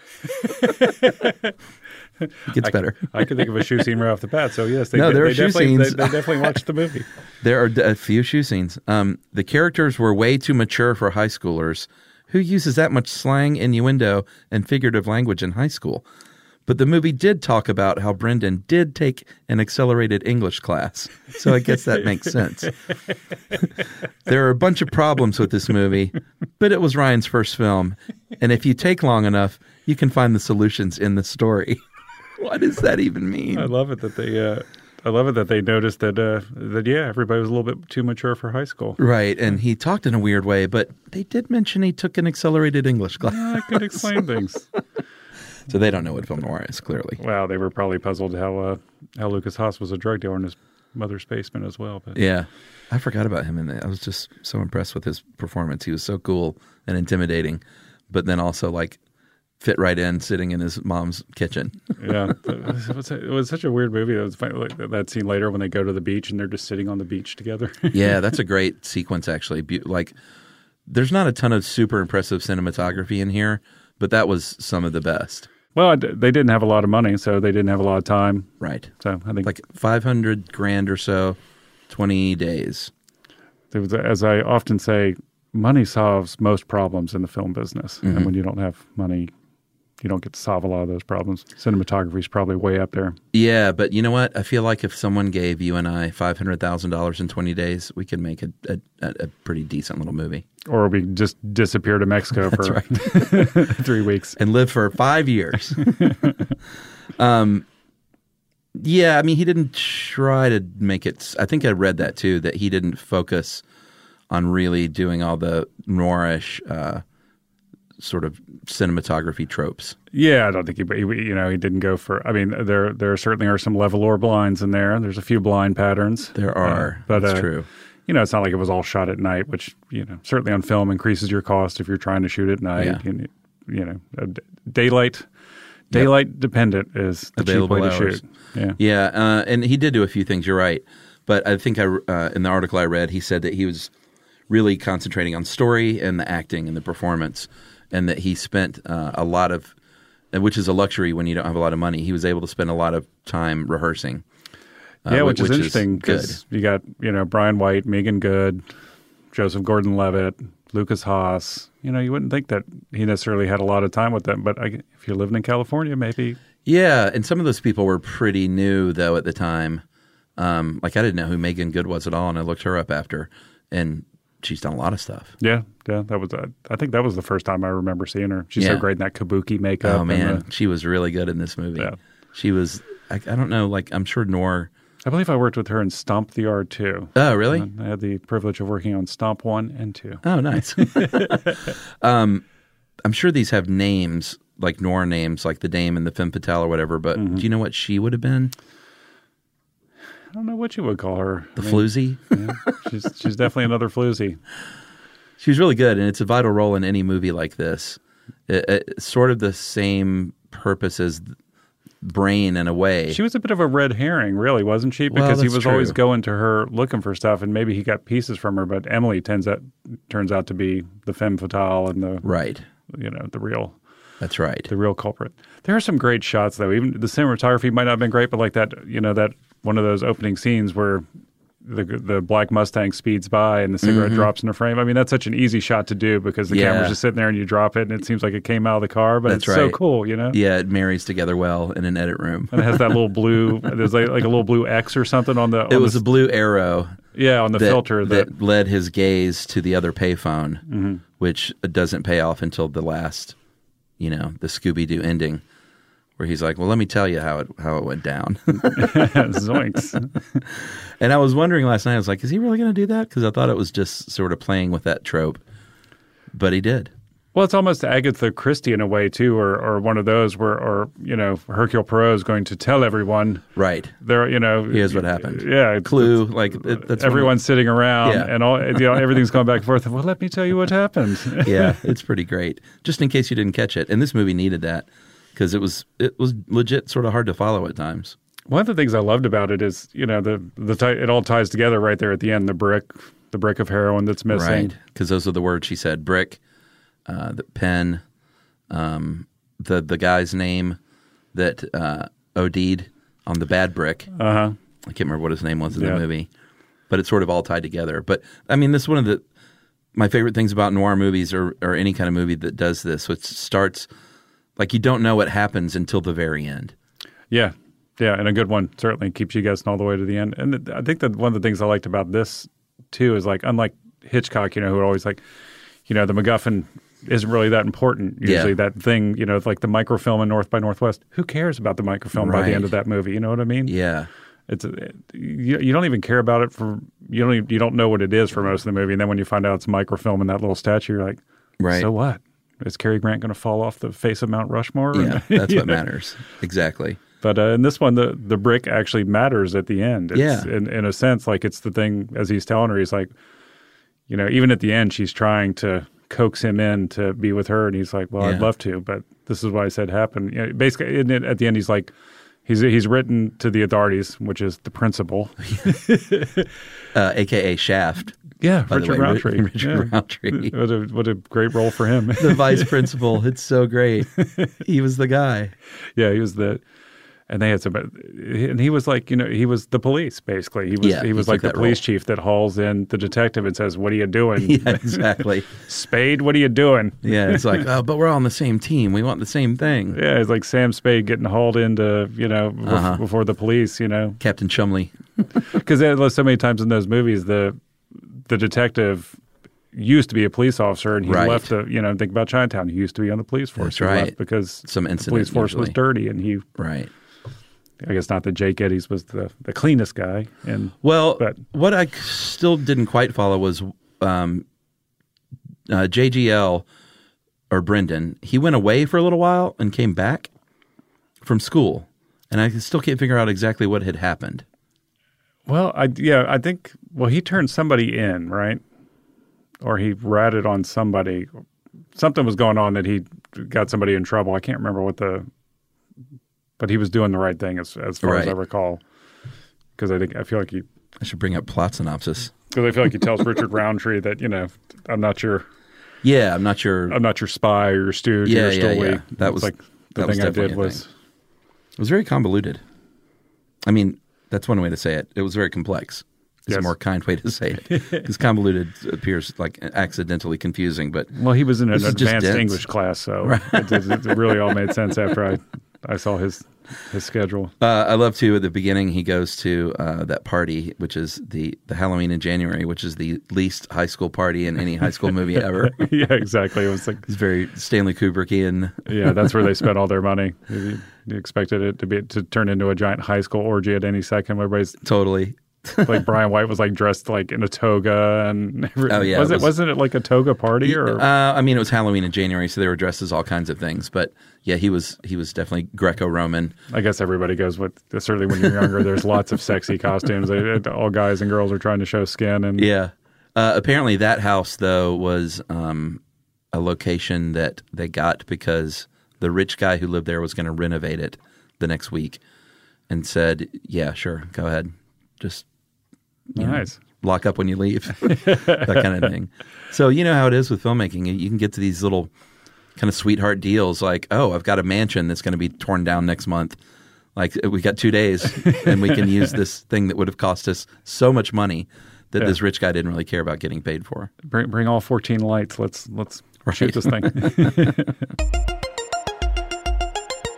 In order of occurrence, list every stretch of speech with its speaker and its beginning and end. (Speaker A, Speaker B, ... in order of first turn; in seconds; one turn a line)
Speaker A: 0.4-1.5
Speaker B: 2.5-3.1
Speaker A: 2.5-7.1
Speaker B: 4.9-6.5
Speaker B: 7.4-16.0
Speaker B: 16.6-22.8
Speaker B: 24.2-31.8
Speaker B: 32.4-33.7
Speaker A: 33.5-39.0
Speaker B: 39.0-44.1
Speaker A: 43.2-44.6
Speaker B: 45.7-47.2
Speaker A: 47.2-52.2
Speaker B: 52.1-59.0
Speaker B: 59.6-61.8
Speaker A: 62.0-68.2
Speaker B: 67.9-70.1
Speaker B: 70.9-75.5
Speaker A: 75.7-79.5
Speaker B: 78.6-78.9
Speaker B: 79.4-81.4
Speaker B: 81.9-82.9
Speaker A: 83.7-89.3
Speaker B: 88.0-88.3
Speaker A: 90.0-93.2
Speaker B: 93.3-100.4
Speaker A: 100.7-104.4
Speaker B: 102.5-103.2
Speaker B: 104.4-105.9
Speaker A: 105.8-106.3
Speaker B: 107.2-107.6
Speaker B: 108.8-113.6
Speaker B: 114.3-117.0
Speaker B: 118.0-120.0
Speaker A: 120.1-127.5
Speaker B: 126.3-127.7
Speaker A: 128.1-135.2
Speaker B: 132.8-133.0
Speaker A: 135.9-138.8
Speaker B: 137.4-138.2
Speaker B: 138.8-143.9
Speaker B: 144.5-149.7
Speaker B: 150.3-154.2
Speaker B: 155.0-156.4
Speaker A: 155.1-158.6
Speaker A: 159.3-166.4
Speaker B: 166.6-169.8
Speaker B: 170.4-175.3
Speaker A: 175.4-180.4
Speaker B: 178.6-178.8
Speaker B: 179.8-184.7
Speaker A: 185.0-190.2
Speaker B: 187.1-187.7
Speaker B: 190.2-192.4
Speaker A: 190.8-191.7
Speaker B: 193.0-198.5
Speaker A: 197.2-197.4
Speaker A: 200.3-204.4
Speaker B: 201.6-202.3
Speaker B: 205.4-211.3
Speaker B: 212.0-213.2
Speaker A: 213.1-222.2
Speaker B: 215.1-216.0
Speaker B: 222.2-222.6
Speaker A: 222.9-223.8
Speaker B: 224.2-224.7
Speaker A: 224.7-231.0
Speaker A: 231.6-240.4
Speaker B: 233.8-234.3
Speaker B: 236.5-237.0
Speaker B: 239.2-239.8
Speaker B: 240.3-243.0
Speaker A: 242.5-246.0
Speaker B: 245.7-247.0
Speaker A: 247.1-248.3
Speaker B: 247.5-250.6
Speaker A: 250.7-251.0
Speaker B: 251.2-253.3
Speaker B: 254.0-255.4
Speaker B: 256.2-259.2
Speaker A: 258.6-260.4
Speaker B: 261.0-265.4
Speaker B: 266.3-266.9
Speaker A: 267.3-273.4
Speaker B: 273.6-273.9
Speaker A: 274.0-281.8
Speaker B: 274.7-277.4
Speaker B: 278.0-279.0
Speaker B: 281.4-288.1
Speaker A: 288.5-294.7
Speaker B: 294.3-296.4
Speaker B: 297.1-298.0
Speaker B: 298.7-300.8
Speaker B: 301.3-304.1
Speaker A: 304.1-304.6
Speaker B: 304.8-306.3
Speaker A: 305.7-306.0
Speaker B: 306.9-309.2
Speaker B: 309.9-313.9
Speaker B: 314.6-316.7
Speaker A: 317.3-325.2
Speaker A: 325.9-333.7
Speaker B: 328.2-328.5
Speaker B: 332.1-332.7
Speaker B: 333.6-334.1
Speaker A: 334.5-345.8
Speaker B: 341.6-341.9
Speaker B: 344.9-347.0
Speaker A: 347.2-353.1
Speaker B: 350.1-350.5
Speaker A: 354.1-361.9
Speaker B: 358.2-358.5
Speaker A: 362.4-366.5
Speaker B: 366.9-370.5
Speaker A: 368.4-372.9
Speaker B: 372.2-375.5
Speaker A: 375.9-376.6
Speaker A: 377.3-385.0
Speaker B: 380.8-381.8
Speaker B: 384.4-385.5
Speaker A: 385.6-387.6
Speaker B: 387.0-390.0
Speaker A: 389.9-394.2
Speaker B: 392.6-393.0
Speaker B: 394.2-394.9
Speaker A: 395.5-397.6
Speaker A: 398.3-399.1
Speaker A: 399.7-406.4
Speaker B: 401.0-401.5
Speaker B: 403.6-405.8
Speaker B: 406.6-406.9
Speaker A: 407.8-411.4
Speaker B: 410.8-414.4
Speaker B: 415.7-416.6
Speaker B: 417.5-420.3
Speaker B: 421.2-424.4
Speaker A: 425.5-428.6
Speaker A: 429.6-431.3
Speaker A: 431.9-435.3
Speaker A: 436.6-438.8
Speaker B: 438.0-438.4
Speaker A: 439.8-440.6
Speaker B: 441.0-442.3
Speaker A: 442.5-445.4
Speaker B: 446.0-447.0
Speaker A: 446.9-450.9
Speaker B: 448.2-450.8
Speaker B: 451.8-452.6
Speaker B: 453.6-461.1
Speaker A: 457.7-458.1
Speaker A: 461.1-467.5
Speaker B: 461.7-462.6
Speaker B: 463.2-464.1
Speaker B: 467.6-475.8
Speaker A: 475.6-477.1
Speaker B: 477.1-479.4
Speaker A: 478.9-484.8
Speaker B: 484.8-486.1
Speaker A: 485.8-491.0
Speaker B: 488.9-489.5
Speaker B: 490.6-496.6
Speaker A: 496.7-502.7
Speaker B: 502.6-506.0
Speaker B: 506.5-512.2
Speaker B: 512.9-515.5
Speaker A: 516.3-516.8
Speaker B: 516.4-522.1
Speaker A: 518.1-518.9
Speaker B: 522.8-526.6
Speaker B: 527.1-534.1
Speaker A: 528.4-528.8
Speaker A: 534.2-537.9
Speaker B: 536.5-537.7